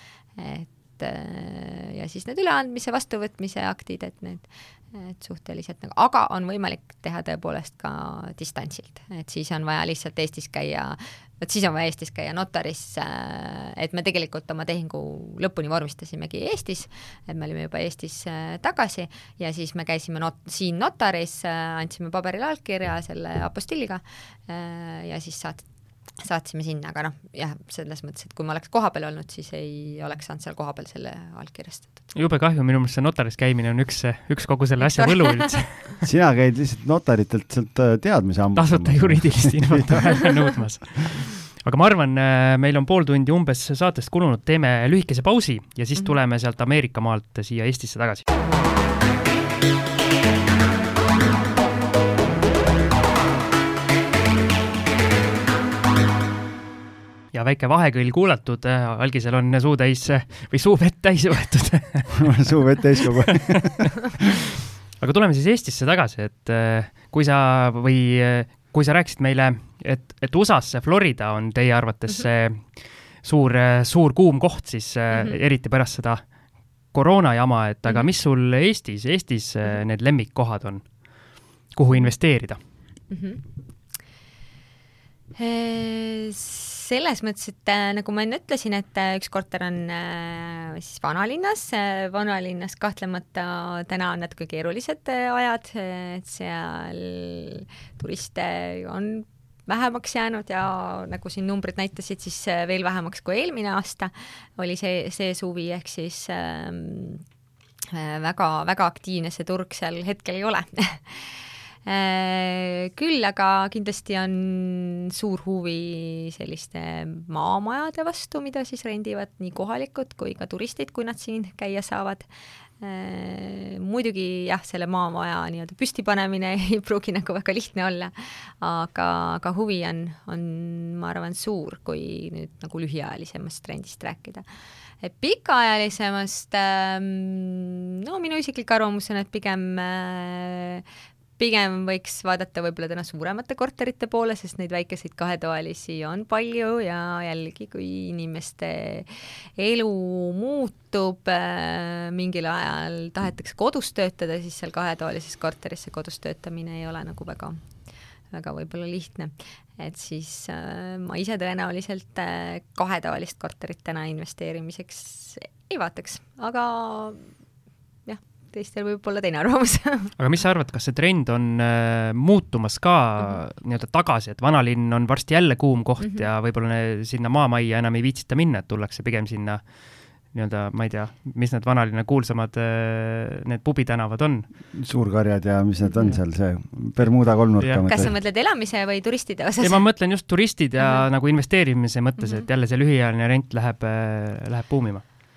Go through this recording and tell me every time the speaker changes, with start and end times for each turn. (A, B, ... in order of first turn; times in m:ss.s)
0:00.4-0:32.0 A
0:32.1-0:36.1 B
0:34.8-0:35.8 A
0:36.1-0:40.2 C
0:38.6-0:48.2 B
0:57.3-1:02.5 B
1:02.2-1:04.0 C
1:05.0-1:16.3 B
1:15.1-1:15.4 A
1:16.9-1:21.0 B
1:21.7-1:22.6 B
1:23.1-1:23.4 A
1:25.4-1:47.2 A
1:47.9-2:02.3 A
2:02.8-2:14.4 A
2:15.0-2:20.8 A
2:21.4-2:37.6 A
2:38.3-2:47.3 A
2:48.1-2:50.1 A
2:50.2-3:04.5 B
2:56.0-2:56.3 A
3:04.7-3:08.1 C
3:07.0-3:08.1 B
3:07.8-3:09.9 A
3:09.6-3:15.0 B
3:10.8-3:11.1 A
3:12.2-3:12.4 A